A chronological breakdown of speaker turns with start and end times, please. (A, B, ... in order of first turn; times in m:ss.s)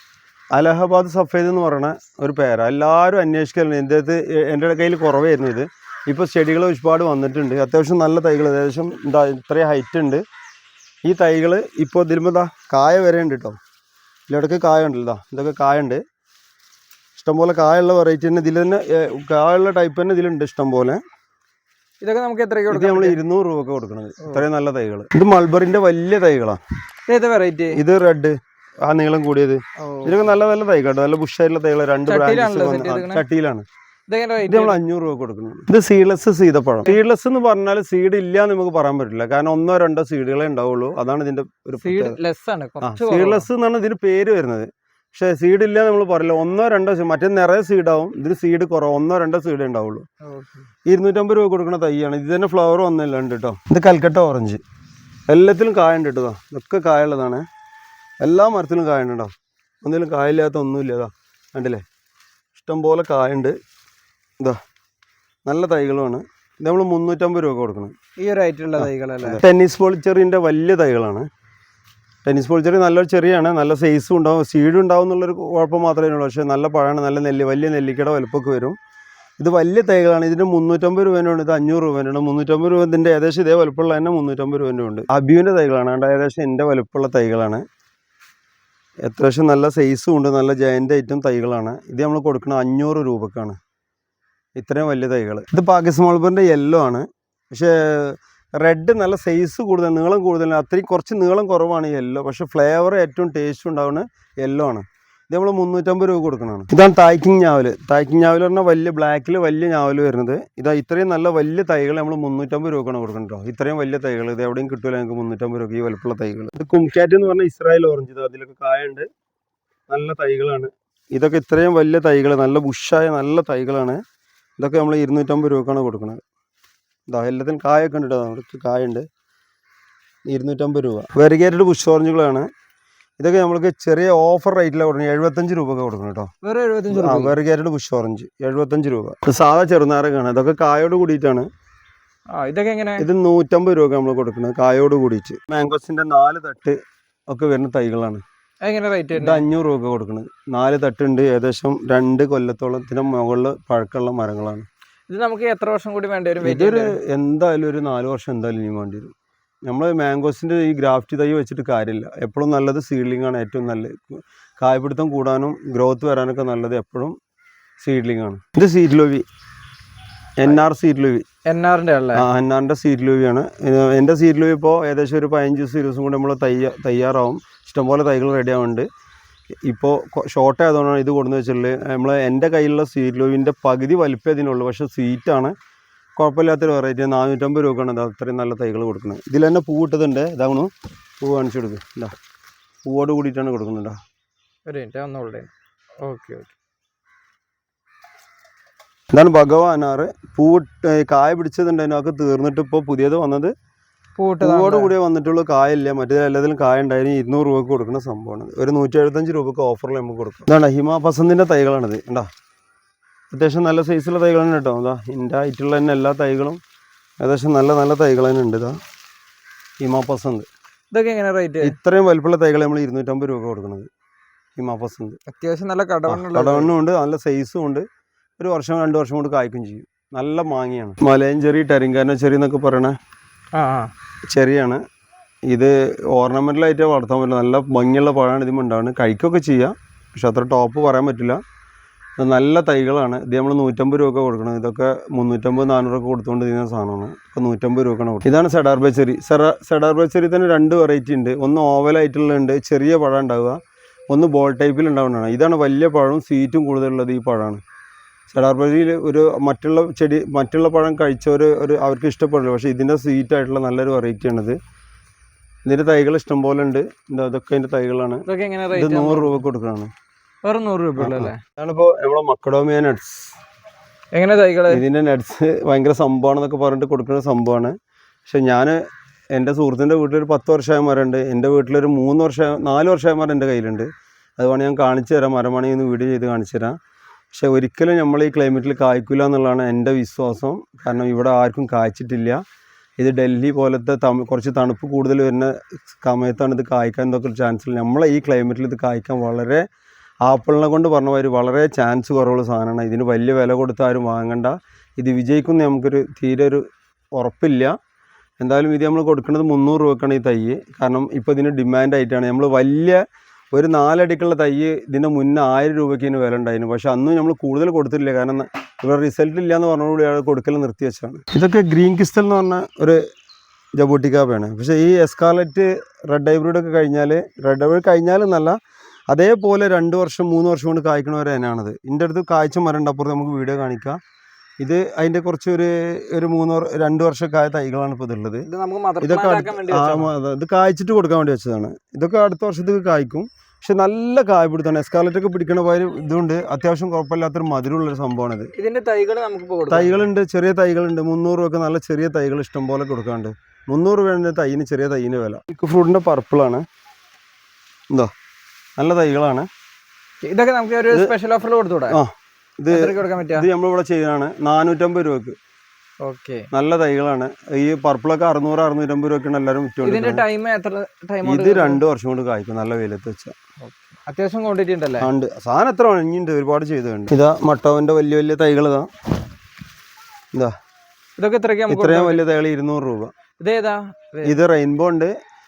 0:00.5-0:10.2 A
0:11.0-0:13.6 A
0:14.3-0:16.0 A
0:17.2-0:21.0 A
0:22.0-0:23.2 B
0:22.7-0:26.6 A
0:27.1-0:27.8 B
0:27.7-0:33.7 A
0:29.8-0:30.2 B
0:32.0-0:33.2 B
0:34.1-0:34.8 B
0:34.5-0:42.2 A
0:41.8-0:43.5 B
0:42.8-0:50.0 A
0:50.2-0:50.7 B
0:50.8-0:54.6 A
0:55.3-0:57.4 A
0:58.2-0:59.3 A
0:59.8-1:01.8 A
1:02.5-1:03.6 A
1:05.5-1:08.0 A
1:08.2-1:09.4 B
1:08.8-1:11.3 A
1:12.2-1:18.8 A
1:19.4-1:27.6 A
1:29.0-1:33.6 A
1:34.6-1:59.1 A
1:59.9-2:04.0 A
2:04.6-2:06.2 A
2:07.1-2:09.0 A
2:10.3-2:12.5 A
2:13.2-2:16.3 A
2:16.4-2:17.4 B
2:16.9-2:21.5 A
2:22.3-2:23.1 B
2:23.0-2:28.2 A
2:28.6-2:29.5 B
2:29.1-2:34.7 A
2:35.1-2:37.0 B
2:36.4-2:39.1 A
2:39.7-2:47.2 A
2:47.8-2:49.2 A
2:50.4-2:51.2 A
2:51.4-2:52.2 B
2:52.1-2:58.9 A
2:59.6-3:05.5 A
3:06.2-3:10.7 A
3:11.2-3:12.1 A
3:12.8-3:14.0 A
3:14.7-3:15.5 B
3:16.0-3:16.5 B
3:19.1-3:23.5 A
3:24.2-3:24.9 B
3:24.4-3:32.3 A
3:33.3-3:36.6 A
3:37.2-3:38.8 A
3:39.8-3:40.5 A
3:40.9-3:41.8 B
3:41.6-3:43.9 A
3:44.6-3:45.2 A
3:45.3-3:46.7 B
3:46.1-3:47.8 A
3:48.4-3:53.0 A
3:53.5-3:53.9 B
3:54.3-3:54.8 A
3:55.5-4:01.4 A
4:02.2-4:13.6 A
4:14.1-4:17.6 A
4:18.3-4:24.6 A
4:25.7-4:29.9 A
4:28.2-4:29.4 B
4:30.4-4:31.4 B
4:31.0-4:33.4 A
4:34.1-4:34.8 B
4:34.7-4:37.8 A
4:38.2-4:38.8 A
4:39.3-4:46.8 A
4:47.3-4:52.4 A
4:53.0-4:59.6 A
5:00.2-5:07.8 A
5:08.4-5:23.0 A
5:23.8-5:28.6 A
5:29.1-5:34.0 A
5:34.6-5:38.5 A
5:38.5-5:40.1 B
5:39.0-5:48.5 A
5:48.6-5:50.1 B
5:49.7-5:56.6 A
5:58.8-5:59.5 A
6:00.2-6:02.0 B
6:01.9-6:05.4 A
6:02.7-6:03.5 B
6:06.0-6:06.5 B
6:06.5-6:10.2 A
6:09.8-6:11.8 B
6:11.2-6:13.4 A
6:13.6-6:15.1 B
6:15.0-6:18.9 A
6:21.2-6:22.2 B
6:21.7-6:23.1 A
6:23.4-6:24.4 B
6:24.2-6:25.1 A